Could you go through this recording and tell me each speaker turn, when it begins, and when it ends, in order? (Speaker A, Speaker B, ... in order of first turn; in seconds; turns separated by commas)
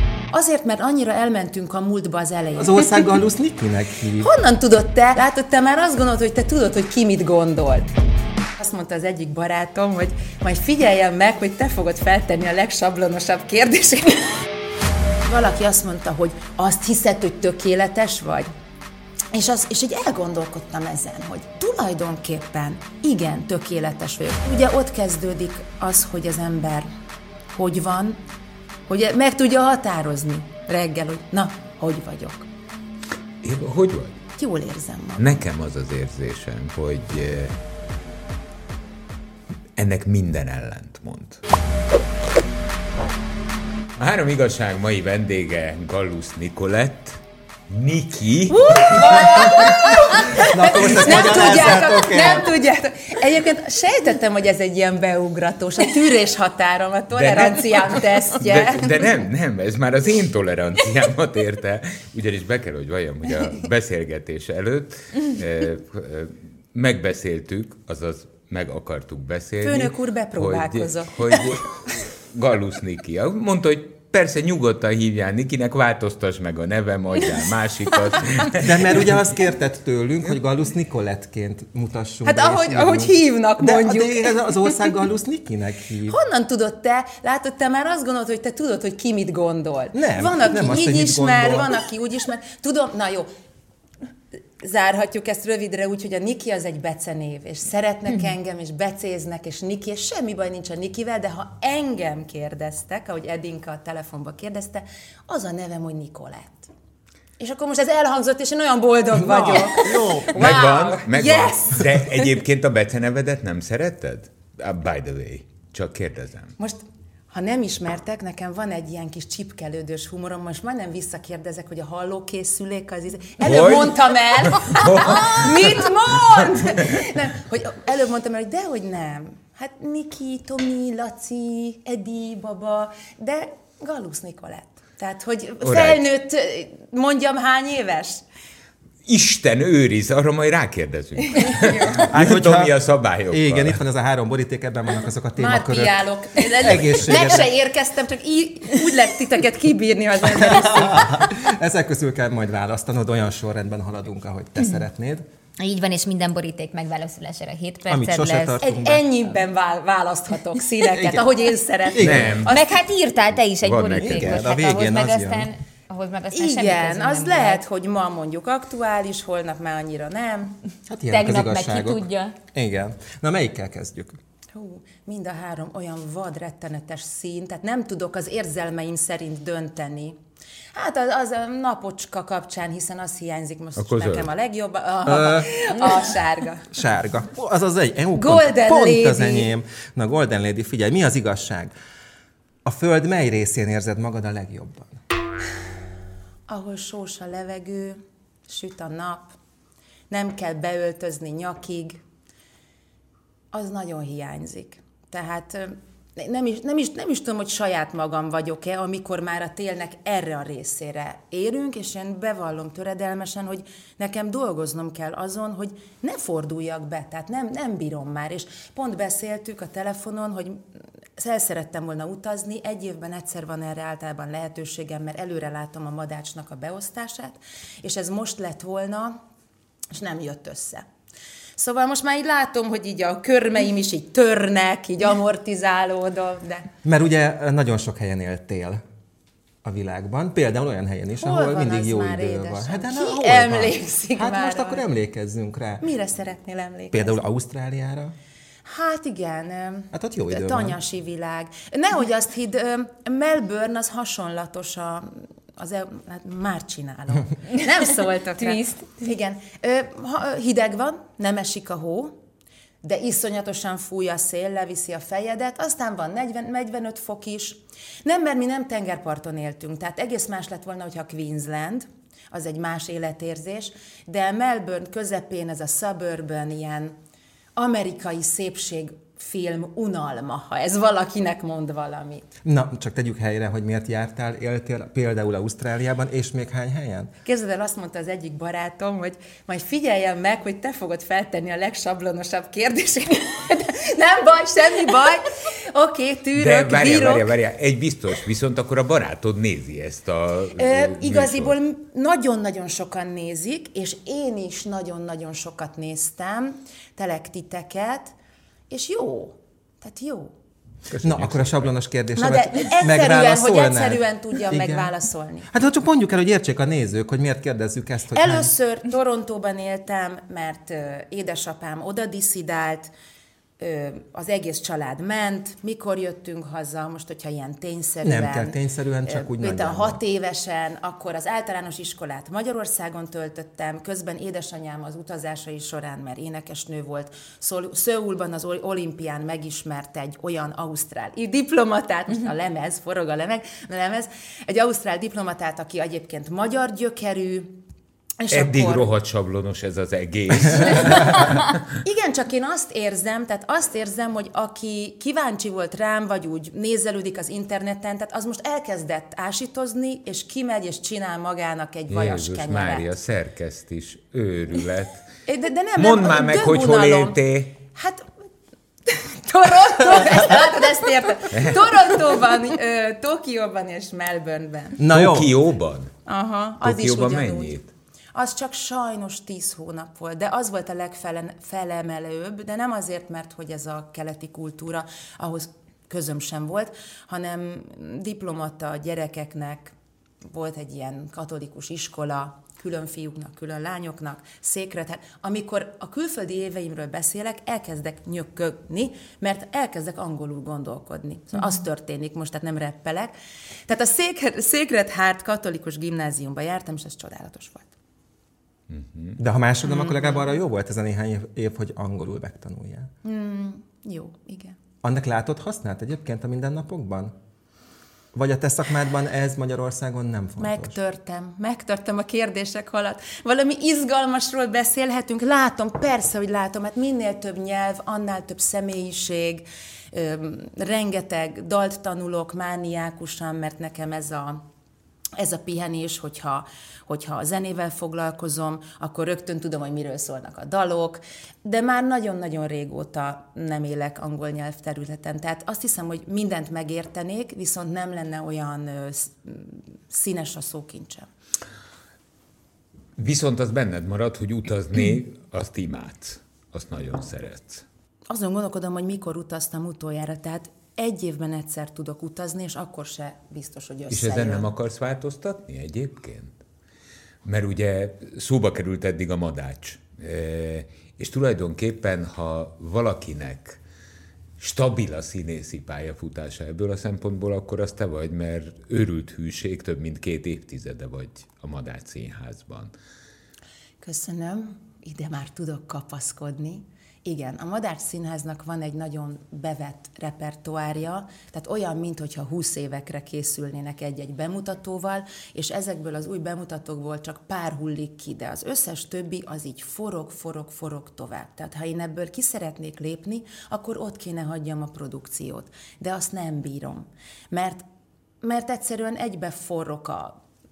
Speaker A: 0.3-3.2, Speaker B: 2.6-4.3, Speaker A: 4.2-7.9, Speaker A: 8.6-14.4, Speaker A: 15.2-18.5, Speaker A: 19.3-26.9, Speaker A: 27.5-28.2, Speaker A: 28.9-32.5, Speaker C: 33.4-34.2, Speaker A: 34.4-35.4, Speaker C: 35.2-37.5, Speaker C: 39.8-41.4, Speaker C: 44.0-49.6, Speaker A: 48.5-59.0, Speaker B: 49.2-49.6, Speaker B: 50.4-52.6, Speaker C: 57.1-79.1, Speaker A: 69.6-71.6, Speaker B: 78.6-86.2, Speaker A: 82.2-84.7, Speaker A: 86.1-93.3, Speaker B: 89.9-91.8, Speaker A: 94.6-106.7, Speaker A: 107.4-112.3, Speaker B: 109.1-110.5, Speaker C: 110.3-116.5, Speaker A: 117.3-138.2, Speaker C: 123.4-125.7, Speaker C: 135.6-136.0, Speaker C: 139.1-143.8, Speaker A: 141.4-142.1, Speaker B: 142.0-142.8, Speaker B: 143.3-147.5, Speaker A: 145.3-151.3, Speaker B: 150.4-155.2, Speaker D: 155.6-158.6, Speaker B: 157.9-159.0, Speaker A: 158.6-162.7, Speaker B: 160.8-161.2, Speaker B: 161.9-162.4, Speaker C: 162.0-162.5, Speaker D: 162.4-167.6, Speaker C: 163.6-164.5, Speaker B: 163.9-165.5, Speaker A: 166.3-170.6, Speaker B: 170.9-174.2, Speaker D: 171.1-172.3, Speaker A: 174.5-180.2, Speaker A: 180.7-186.7, Speaker C: 183.8-184.3, Speaker B: 185.1-186.0, Speaker B: 186.7-191.7, Speaker A: 188.1-189.5, Speaker B: 192.6-195.0, Speaker A: 196.5-199.3, Speaker A: 200.1-202.0, Speaker A: 203.5-220.6, Speaker A: 221.2-229.2, Speaker A: 229.9-230.8, Speaker A: 231.6-236.7, Speaker B: 236.8-238.8, Speaker B: 239.6-245.9, Speaker A: 241.2-244.8, Speaker A: 245.8-247.2, Speaker B: 246.9-248.1, Speaker A: 248.7-262.1, Speaker B: 249.9-250.8, Speaker D: 258.5-258.8, Speaker A: 262.8-276.9, Speaker A: 277.6-282.3, Speaker B: 282.4-287.1, Speaker A: 287.2-297.3, Speaker C: 296.4-301.6, Speaker A: 300.5-308.1, Speaker A: 308.7-310.3, Speaker C: 310.9-311.7, Speaker B: 311.0-314.9, Speaker A: 312.1-315.5, Speaker B: 315.5-318.5, Speaker A: 318.1-322.9, Speaker A: 323.6-347.6, Speaker B: 328.0-330.0, Speaker A: 348.2-348.9, Speaker C: 348.3-351.6, Speaker A: 350.7-351.2, Speaker A: 351.8-362.9, Speaker C: 361.9-365.1, Speaker A: 365.2-367.2, Speaker C: 365.8-367.6, Speaker A: 367.7-368.1, Speaker A: 368.9-374.8, Speaker C: 371.3-371.7, Speaker B: 374.8-375.3, Speaker C: 374.9-375.9, Speaker A: 376.1-377.6, Speaker C: 376.6-377.7, Speaker A: 378.1-403.1, Speaker A: 403.7-407.7, Speaker C: 408.7-409.2, Speaker B: 409.2-412.9, Speaker A: 409.6-410.2, Speaker A: 413.0-414.6, Speaker B: 414.8-417.1, Speaker B: 418.1-420.7, Speaker A: 420.4-434.4, Speaker A: 435.2-451.1, Speaker C: 453.0-457.6, Speaker A: 458.1-464.5, Speaker C: 463.9-466.4, Speaker C: 467.2-473.6, Speaker C: 474.4-482.7, Speaker A: 483.8-507.6, Speaker A: 508.2-510.2